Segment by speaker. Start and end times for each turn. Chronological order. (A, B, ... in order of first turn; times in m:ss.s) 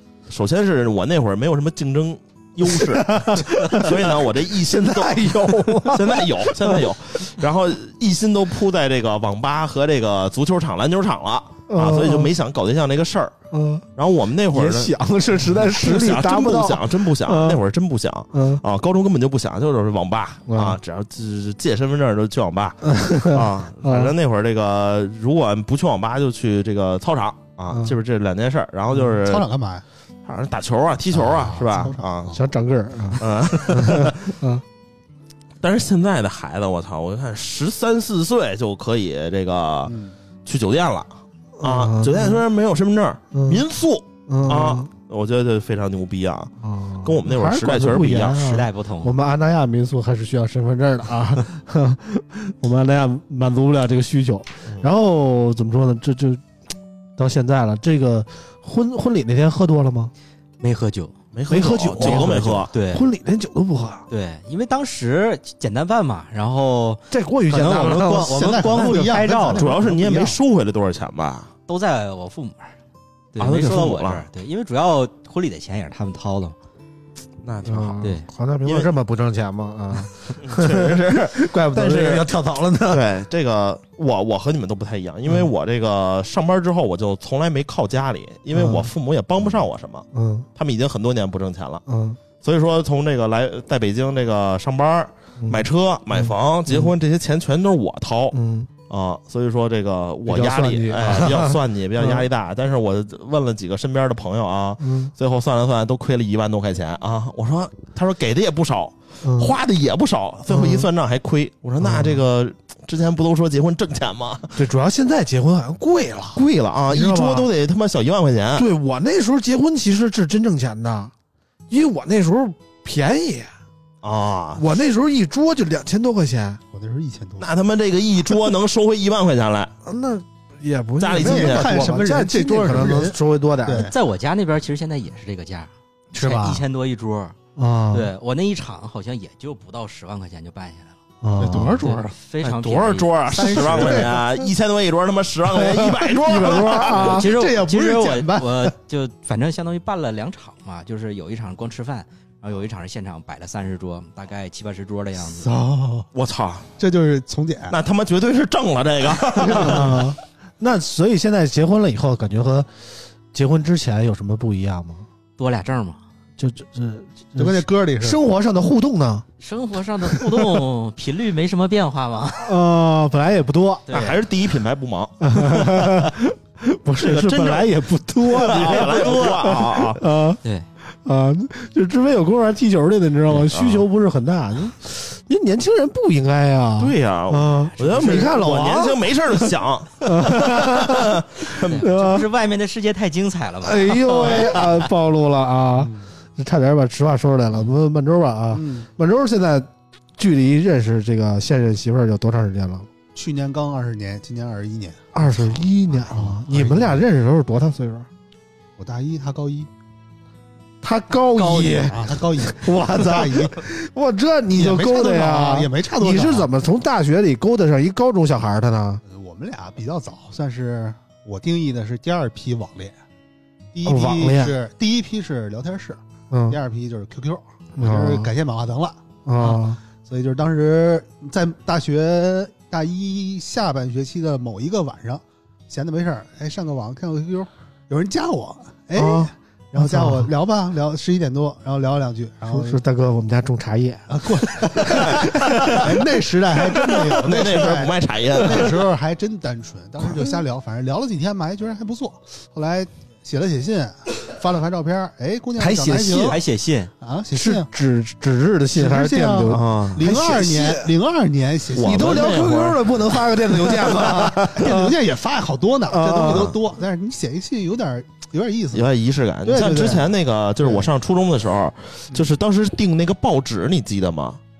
0:00.3-0:13.3 A
0:02.7-0:06.8 B
0:11.7-0:12.3 B
0:13.5-0:13.8 B
0:14.0-0:14.9 A
0:14.5-0:17.6 B
0:15.5-0:29.5 A
0:18.3-0:18.6 B
0:20.5-0:20.8 B
0:22.9-0:24.1 B
0:29.1-0:29.8 C
0:30.3-0:32.4 A
0:31.1-0:32.4 C
0:32.3-0:34.6 B
0:33.2-0:34.3 A
0:35.6-0:39.9 A
0:39.9-0:40.2 C
0:40.4-0:46.5 A
0:41.6-0:42.4 B
0:43.3-0:43.6 B
0:44.3-0:44.9 B
0:46.6-0:56.4 B
0:47.0-0:48.5 A
0:48.4-0:49.2 D
0:57.2-1:00.1 B
1:00.6-1:01.2 D
1:01.3-1:02.7 A
1:01.5-1:04.1 B
1:02.0-1:03.1 D
1:04.1-1:09.7 D
1:07.1-1:08.7 B
1:08.1-1:10.4 C
1:08.8-1:11.5 A
1:11.7-1:12.8 D
1:13.3-1:16.6 D
1:13.4-1:14.3 A
1:17.4-1:18.1 A
1:17.6-1:23.0 B
1:20.4-1:22.3 A
1:22.9-1:31.8 A
1:28.5-1:28.9 B
1:30.1-1:30.5 B
1:31.9-1:32.2 B
1:32.4-1:38.4 A
1:36.2-1:36.9 B
1:38.3-1:38.7 B
1:38.9-1:54.6 A
1:40.3-1:42.2 B
1:44.8-1:45.1 B
1:49.2-1:49.6 B
1:50.5-1:50.9 B
1:51.8-1:52.2 B
1:54.6-1:57.5 B
1:56.4-1:58.7 A
1:58.6-2:01.1 B
2:01.7-2:03.5 B
2:04.0-2:04.7 A
2:04.6-2:06.6 B
2:06.7-2:07.5 C
2:07.4-2:09.7 A
2:09.9-2:13.9 B
2:11.0-2:11.9 A
2:11.2-2:13.9 C
2:13.8-2:17.4 D
2:16.1-2:16.6 B
2:17.6-2:18.1 B
2:17.9-2:21.0 D
2:21.2-2:21.8 B
2:21.4-2:22.1 C
2:21.8-2:24.0 D
2:22.4-2:27.2 A
2:23.3-2:24.2 C
2:25.5-2:27.2 B
2:27.0-2:35.5 D
2:27.2-2:28.7 C
2:35.4-2:36.1 C
2:36.1-2:36.7 A
2:36.8-2:37.8 C
2:37.7-2:40.1 A
2:39.4-2:39.9 C
2:39.5-2:42.7 B
2:43.3-2:45.0 B
2:45.4-2:46.0 D
2:46.4-2:49.2 B
2:47.4-2:48.2 C
2:49.4-2:52.6 D
2:52.4-2:53.9 B
2:53.9-2:54.2 D
2:53.9-2:56.1 A
2:55.2-3:00.4 B
2:57.0-3:00.0 A
3:01.0-3:09.0 B
3:03.3-3:03.8 A
3:06.8-3:11.9 A
3:07.8-3:08.2 D
3:10.0-3:12.2 B
3:11.7-3:14.9 D
3:13.6-3:22.9 B
3:15.8-3:16.1 C
3:18.5-3:18.9 C
3:23.1-3:27.1 C
3:25.1-3:28.1 B
3:28.8-3:29.7 C
3:30.8-3:39.0 B
3:31.4-3:33.6 C
3:31.4-3:31.8 D
3:34.5-3:36.5 C
3:39.1-3:43.0 C
3:43.7-4:02.8 C
3:43.9-3:44.6 B
3:46.3-3:46.6 B
3:47.8-3:48.3 B
3:49.3-3:49.8 B
3:59.0-4:00.3 B
4:02.5-4:05.9 B
4:04.1-4:16.4 C
4:06.9-4:08.8 A
4:15.6-4:16.9 D
4:17.0-4:17.7 C
4:17.3-4:20.9 B
4:18.7-4:22.5 C
4:19.5-4:20.0 A
4:21.7-4:23.1 A
4:21.8-4:24.9 B
4:23.8-4:28.9 C
4:25.9-4:26.5 B
4:28.7-4:34.4 A
4:29.4-4:30.9 C